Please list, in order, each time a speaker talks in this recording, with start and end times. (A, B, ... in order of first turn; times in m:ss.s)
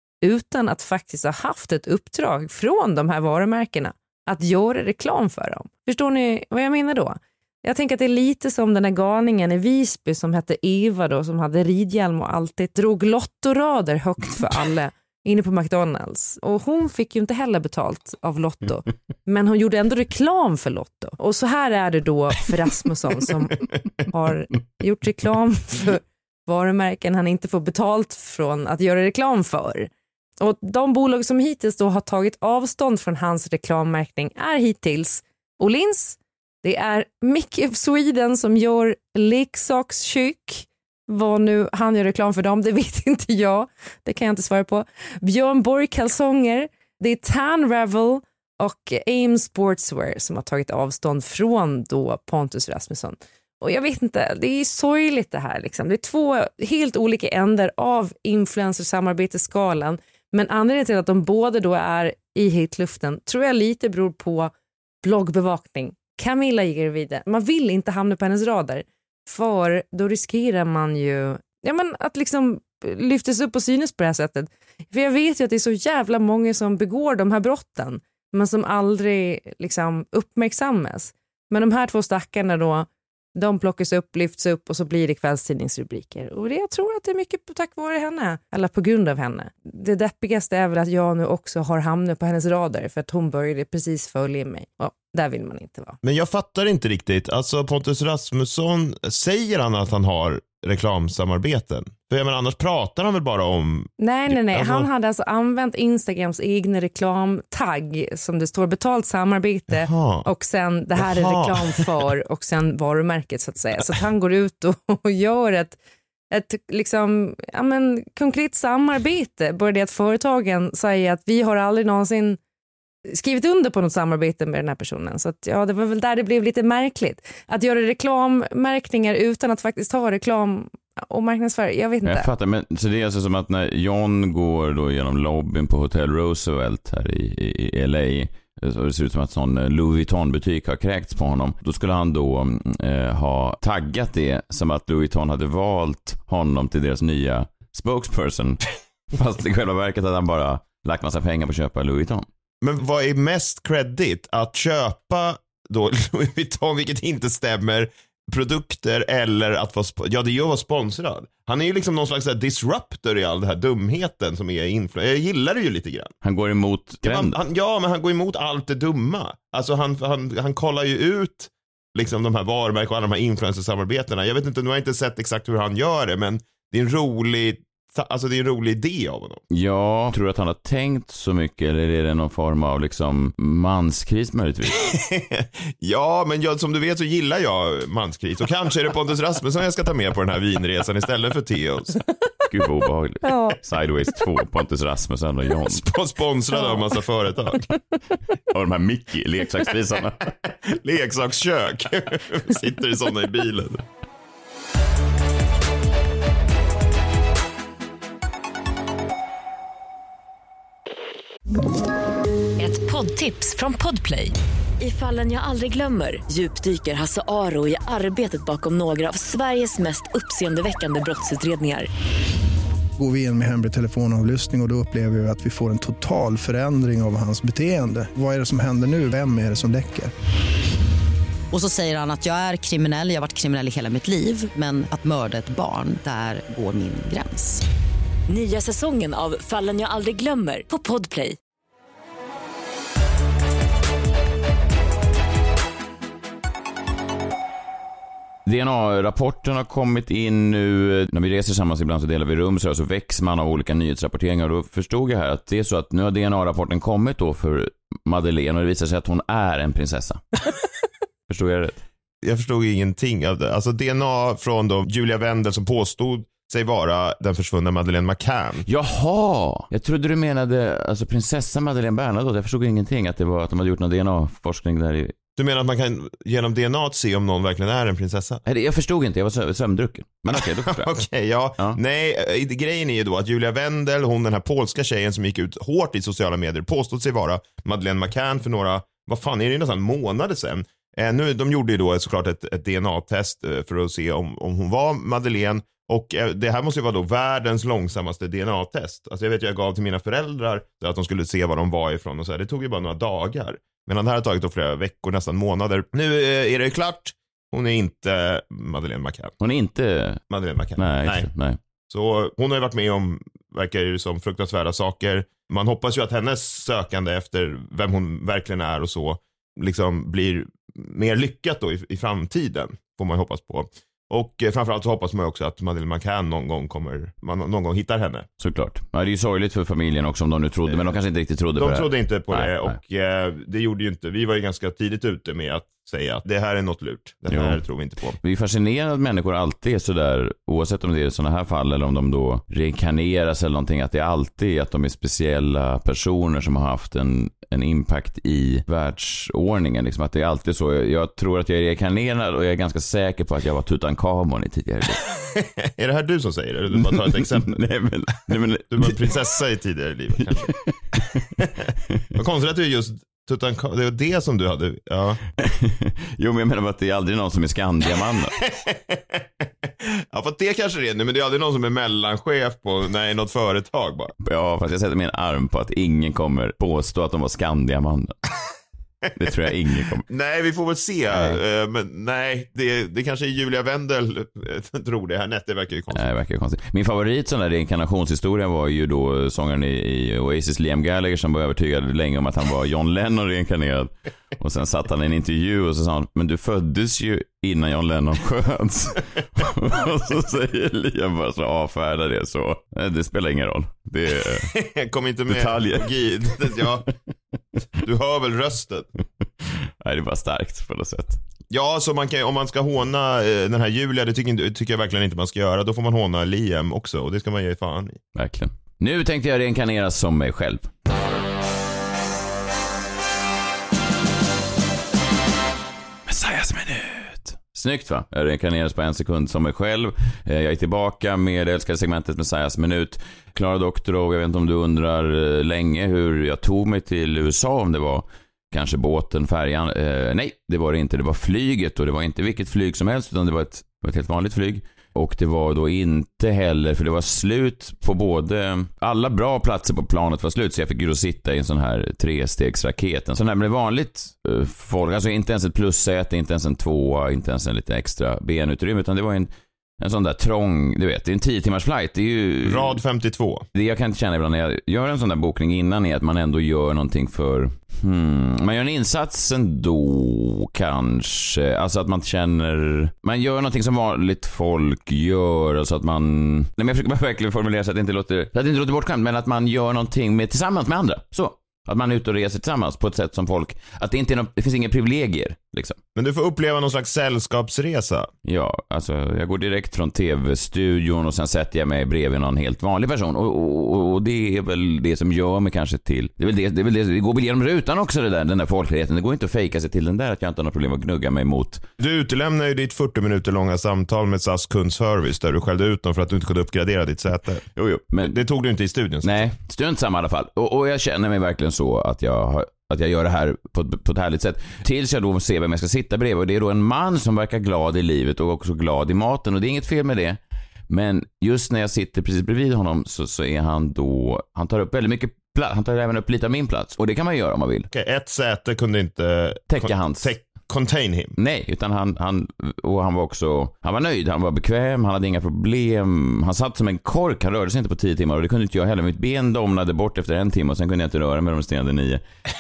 0:00.2-1:04.5 A
1:05.0-1:36.0 A
1:36.0-1:44.9 B
1:44.0-1:55.8 A
1:49.7-1:50.3 B
1:51.0-1:51.9 B
1:56.3-2:02.4 A
2:03.1-2:12.3 A
2:12.0-2:32.3 C
2:32.6-2:46.1 B
2:46.2-2:47.4 C
2:47.0-2:59.4 B
2:59.5-3:04.9 C
3:04.8-3:12.0 B
3:12.5-3:15.9 C
3:15.7-3:17.7 B
3:18.5-3:20.3 C
3:20.4-3:23.8 B
3:32.6-3:41.9 D
3:43.0-3:50.1 E
3:51.5-3:57.6 F
3:58.3-4:01.4 D
4:08.4-4:20.2 C
4:21.3-4:21.8 C
4:22.2-4:28.6 B
4:28.7-4:35.1 C
4:35.4-4:38.4 B
4:38.5-4:41.0 C
4:40.3-5:09.4 B
5:09.4-5:10.2 C
5:10.3-5:11.3 B
5:10.8-5:11.6 C
5:11.9-5:28.3 B
5:28.4-5:32.8 C
5:31.6-5:38.2 B
5:37.3-5:37.6 C
5:38.2-5:55.0 C
5:55.2-5:57.6 B
5:56.7-5:59.1 C
5:58.7-6:00.5 B
6:00.2-6:02.0 C
6:01.0-6:05.2 B
6:05.4-6:08.4 C
6:08.4-6:14.1 B
6:14.2-6:18.1 C
6:19.2-6:20.1 C
6:20.1-6:26.1 B
6:21.1-6:21.4 C
6:25.9-6:44.6 C
6:44.3-6:46.9 B
6:45.3-6:46.8 C
6:47.8-6:48.9 B
6:49.4-6:51.2 C
6:51.5-6:58.0 B
6:58.2-7:00.9 C
7:06.1-7:39.3 C
7:39.8-7:42.8 C
7:42.4-7:43.5 B
7:43.6-8:05.8 C
8:06.0-8:08.1 B
8:08.2-8:21.6 C
8:21.8-8:27.4 B
8:27.6-8:28.2 C
8:28.0-8:29.3 B
8:29.0-8:40.2 C
8:40.7-8:47.7 C
8:47.7-8:51.2 B
8:49.5-8:50.1 C
8:51.2-9:02.0 C